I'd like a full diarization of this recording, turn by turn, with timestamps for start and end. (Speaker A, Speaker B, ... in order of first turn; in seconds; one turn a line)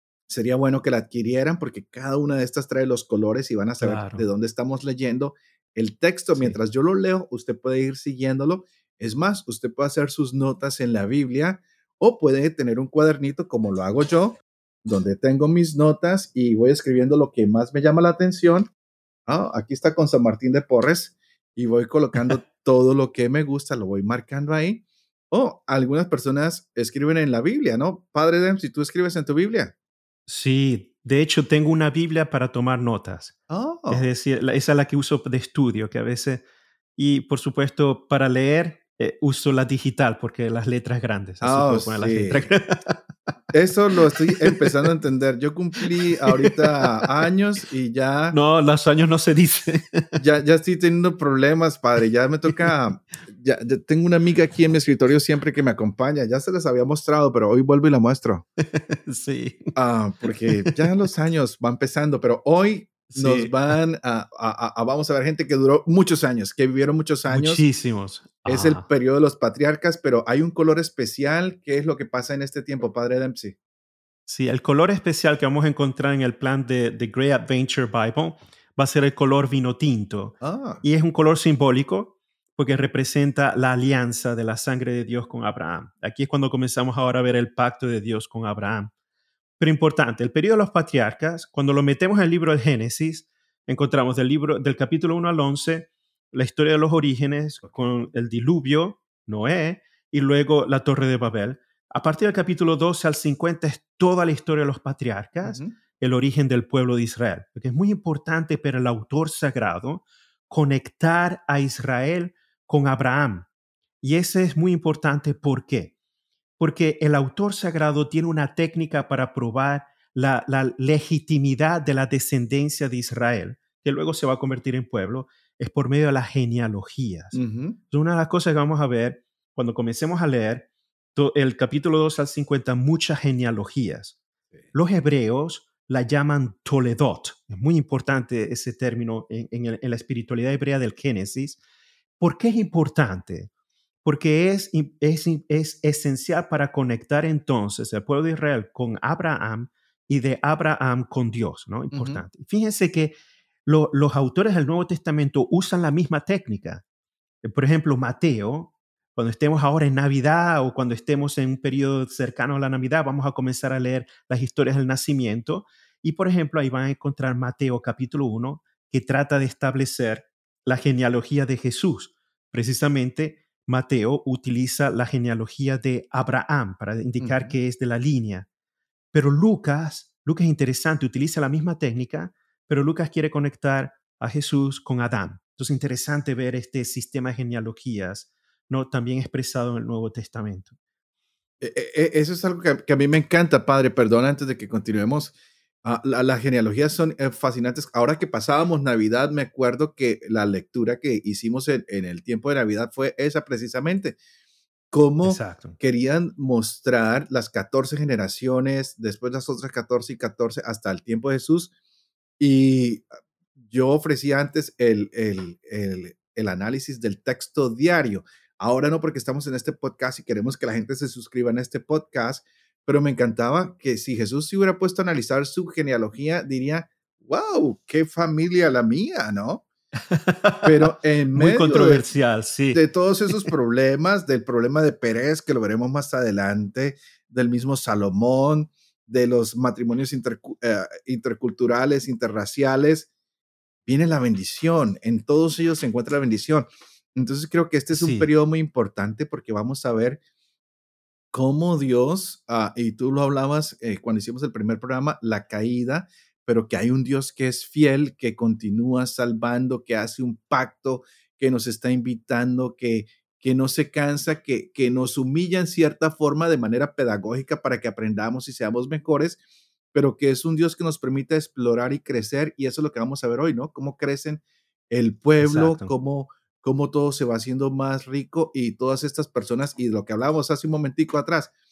Speaker A: 0.3-18.7
Speaker B: 3.8-4.2
Speaker A: 19.3-29.7
Speaker B: 30.3-33.4
Speaker A: 33.5-34.1
Speaker B: 33.9-36.4
Speaker B: 37.0-43.0
Speaker A: 41.4-42.5
Speaker A: 43.5-48.4
Speaker B: 44.3-44.9
Speaker B: 46.1-47.1
Speaker B: 48.3-50.2
Speaker A: 50.1-58.4
Speaker B: 58.6-59.7
Speaker A: 59.7-67.6
Speaker B: 60.5-60.8
Speaker B: 63.1-63.7
Speaker B: 67.3-68.9
Speaker A: 68.5-73.5
Speaker B: 74.3-88.9
Speaker A: 80.4-80.8
Speaker B: 89.6-113.5
Speaker A: 105.4-105.7
Speaker B: 114.0-115.9
Speaker B: 116.6-134.2
Speaker A: 127.3-127.8
Speaker B: 134.7-141.6
Speaker B: 142.2-143.5
Speaker B: 144.0-153.1
Speaker A: 151.9-152.2
Speaker B: 153.7-156.8
Speaker B: 157.4-178.5
Speaker A: 177.2-177.5
Speaker B: 179.1-190.7
Speaker A: 191.6-204.2
Speaker A: 204.9-211.7
Speaker B: 205.2-205.8
Speaker A: 212.4-213.1
Speaker A: 213.7-229.6
Speaker B: 230.0-233.5
Speaker A: 230.6-232.1
Speaker A: 232.7-243.1
Speaker A: 243.8-250.2
Speaker B: 247.9-248.3
Speaker A: 251.3-269.4
Speaker A: 269.9-281.5
Speaker B: 275.4-275.9